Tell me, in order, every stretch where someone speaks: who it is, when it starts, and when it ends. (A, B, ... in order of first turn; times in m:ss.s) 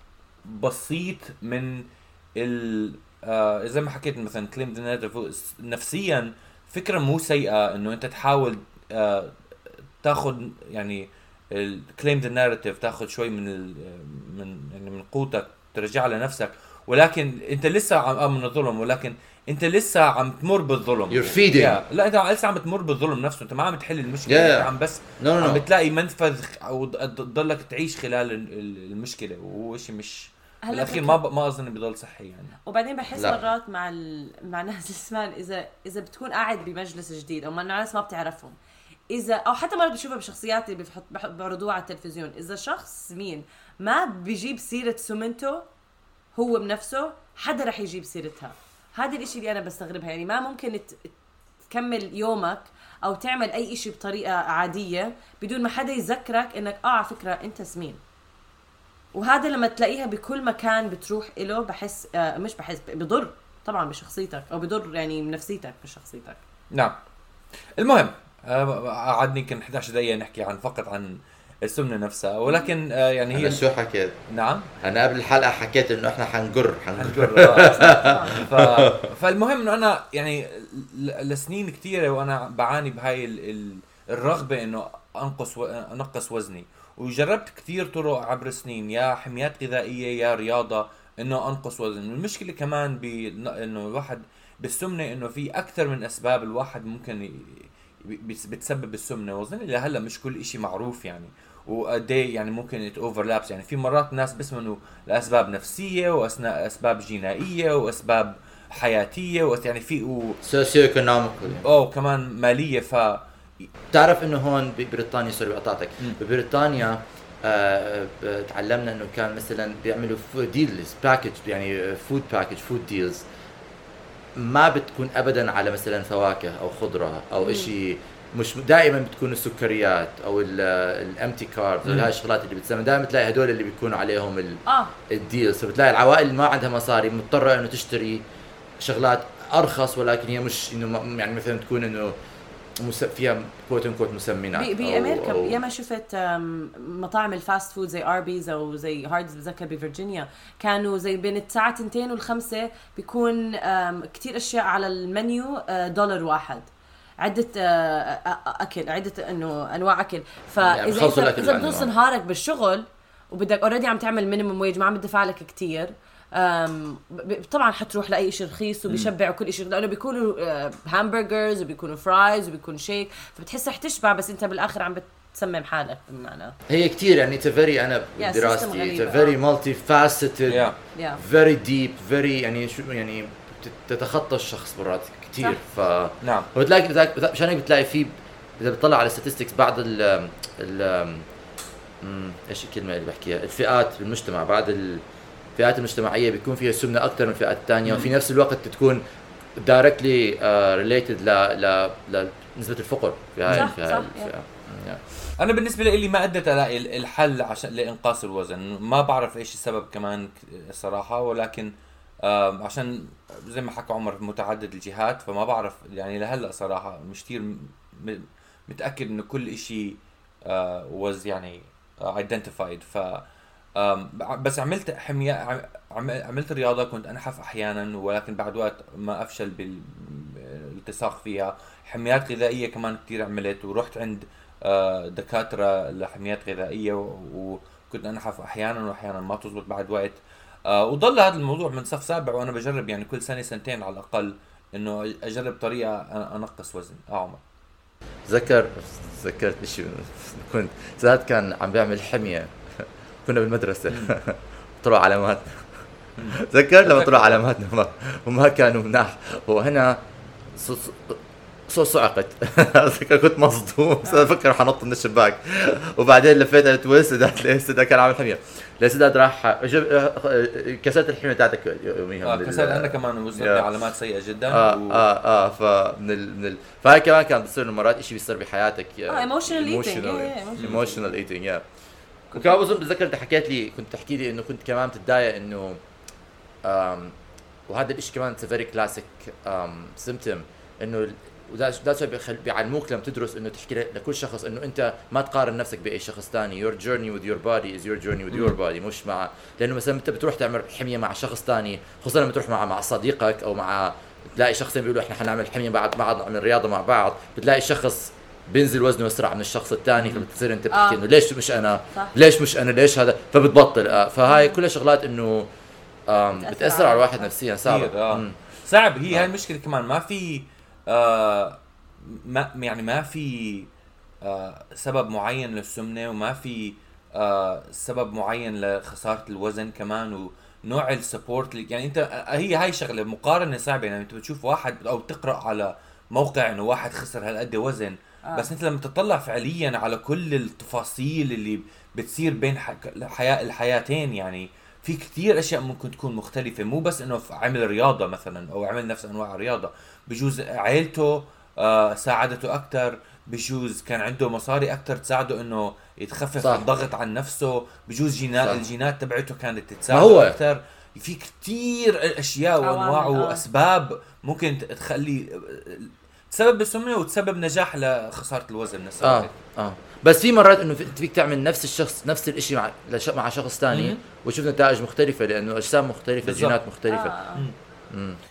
0:00.4-0:09.3 A
0:10.0-0:32.6 A
0:21.1-0:21.8 B
0:24.3-0:24.7 B
0:25.2-0:25.6 B
0:30.6-0:31.2 C
0:32.6-0:38.6 C
0:33.1-0:33.4 B
0:39.1-0:45.6 C
0:46.4-0:51.1 C
0:51.7-0:58.0 C
0:59.1-1:06.4 C
1:07.8-1:13.6 A
1:13.3-1:14.2 B
1:14.3-1:14.7 A
1:14.8-1:19.0 B
1:17.0-1:50.4 A
1:17.6-1:18.4 C
1:50.4-1:51.6 B
1:51.6-1:53.7 A
1:53.9-2:03.2 B
2:04.4-2:18.2 B
2:07.4-2:07.7 C
2:11.8-2:12.1 A
2:14.6-2:14.9 C
2:18.8-2:22.1 B
2:22.8-2:25.6 B
2:24.5-2:56.5 C
2:40.6-2:41.9 B
2:56.7-3:11.2 B
2:58.2-2:59.4 C
3:00.5-3:00.7 A
3:00.9-3:01.2 C
3:06.2-3:06.5 A
3:12.0-3:15.0 B
3:15.6-3:19.0 B
3:19.6-3:25.0 B
3:23.5-3:23.7 A
3:23.5-3:24.3 C
3:25.4-3:31.7 A
3:32.2-3:43.2 A
3:43.8-4:07.4 A
4:08.3-4:15.7 B
4:16.2-4:17.4 A
4:16.3-4:20.0 B
4:20.5-4:33.6 B
4:32.2-4:35.0 A
4:34.5-4:41.6 B
4:39.1-4:41.1 C
4:42.3-4:45.8 B
4:46.6-4:47.2 B
4:47.7-5:15.5 B
5:10.0-5:10.3 A
5:10.7-5:11.0 C
5:14.3-5:14.6 C
5:16.1-5:18.4 B
5:16.4-5:17.3 C
5:17.6-5:23.7 A
5:24.2-6:09.3 A
5:56.4-5:56.7 B
5:58.4-5:58.6 B
5:59.9-6:00.4 B
6:02.6-6:03.4 C
6:09.0-6:17.1 B
6:13.7-6:14.0 A
6:16.2-6:16.6 A
6:16.9-6:17.4 C
6:17.9-6:18.2 B